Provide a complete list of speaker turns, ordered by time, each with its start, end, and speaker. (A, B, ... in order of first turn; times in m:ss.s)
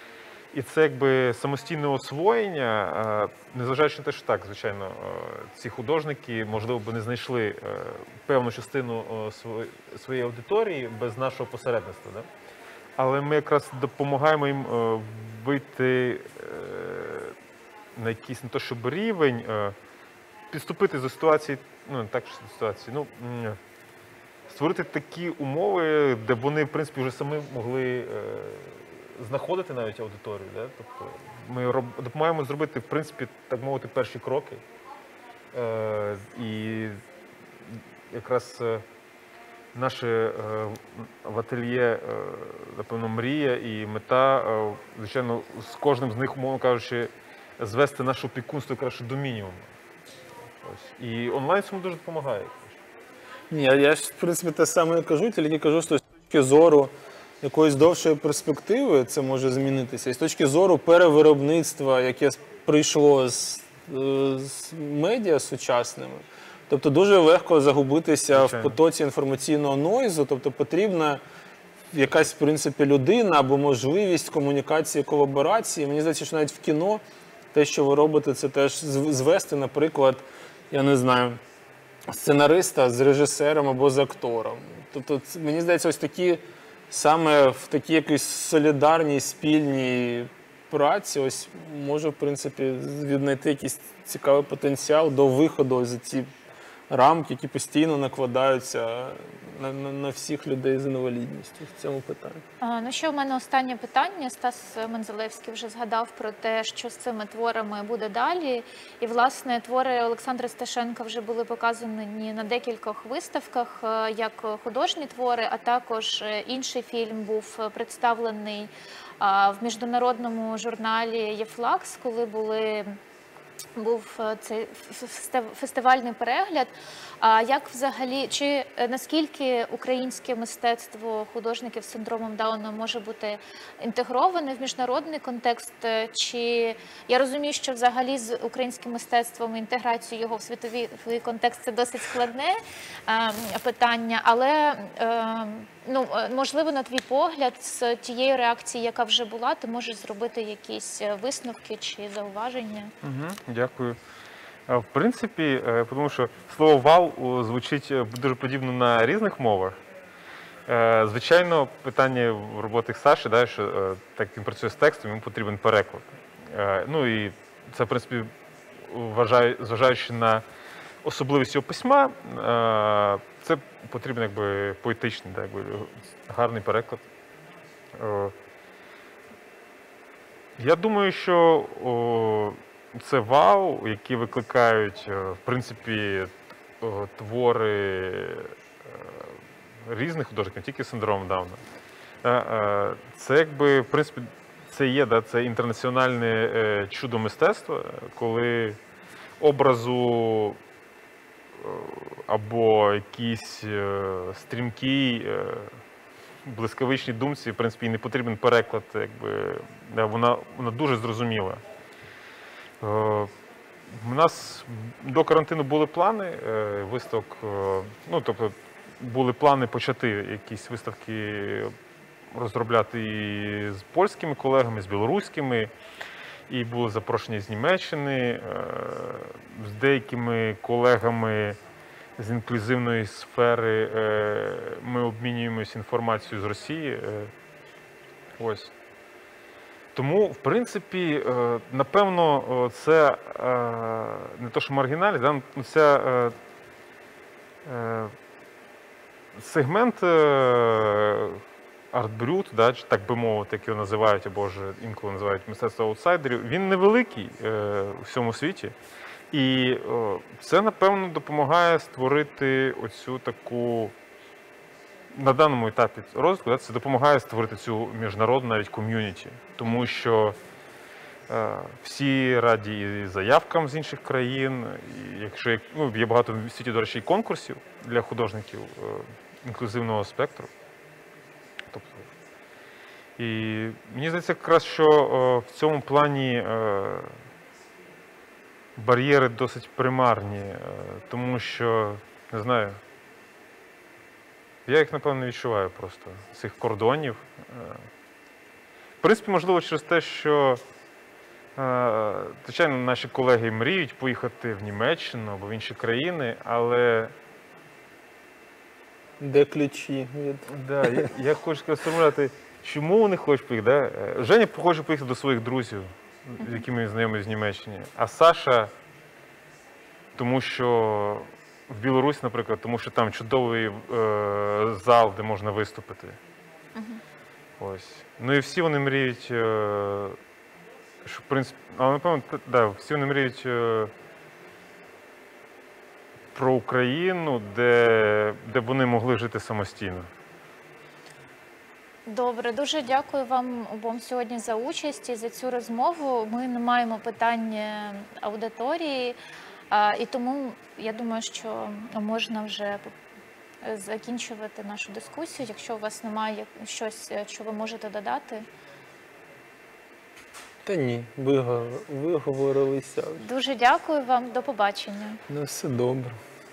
0:00.5-0:12.3 A
0:13.0-0:17.4 A
0:18.0-0:19.8 A
0:20.5-0:23.6 A
0:24.5-0:34.6 A
0:35.5-0:37.0 A
0:37.6-0:38.9 A
0:39.7-0:49.7 A
0:50.6-0:52.8 A
0:53.5-1:11.2 B
1:08.3-1:08.8 A
1:11.9-1:17.0 B
1:17.5-1:21.4 B
1:22.1-1:36.3 B
1:36.9-1:42.4 B
1:42.6-2:03.0 C
2:03.8-2:06.7 C
2:07.2-2:22.6 C
2:23.1-2:32.9 C
2:33.0-2:34.0 A
2:34.7-2:39.8 A
2:40.7-2:50.4 A
2:51.0-2:57.1 A
2:57.9-2:58.4 A
3:00.6-3:11.6 A
3:12.2-3:18.8 A
3:19.4-3:20.6 A
3:21.6-3:25.8 A
3:26.4-3:31.6 A
3:32.8-3:33.3 A
3:33.9-3:41.7 A
3:42.3-3:45.7 A
3:46.5-3:51.6 A
3:52.2-3:57.3 A
3:58.4-3:58.7 A
3:59.9-4:06.4 A
4:07.6-4:08.1 A
4:09.3-4:18.8 A
4:19.3-4:24.0 A
4:25.1-4:30.4 A
4:31.3-4:40.5 A
4:41.7-4:42.1 A
4:43.2-4:47.2 A
4:48.8-4:52.8 A
4:54.7-4:57.9 A
4:59.0-5:00.6 A
5:01.6-5:07.1 A
5:09.2-5:11.1 B
5:10.5-5:18.7 A
5:20.2-5:26.2 A
5:26.8-5:27.0 C
5:27.6-5:30.2 A
5:31.0-5:33.9 A
5:36.3-5:40.1 A
5:42.1-5:49.2 C
5:49.7-5:52.9 C
5:53.6-5:58.5 C
6:00.7-6:03.2 B
6:03.2-6:05.2 C
6:05.3-6:06.2 B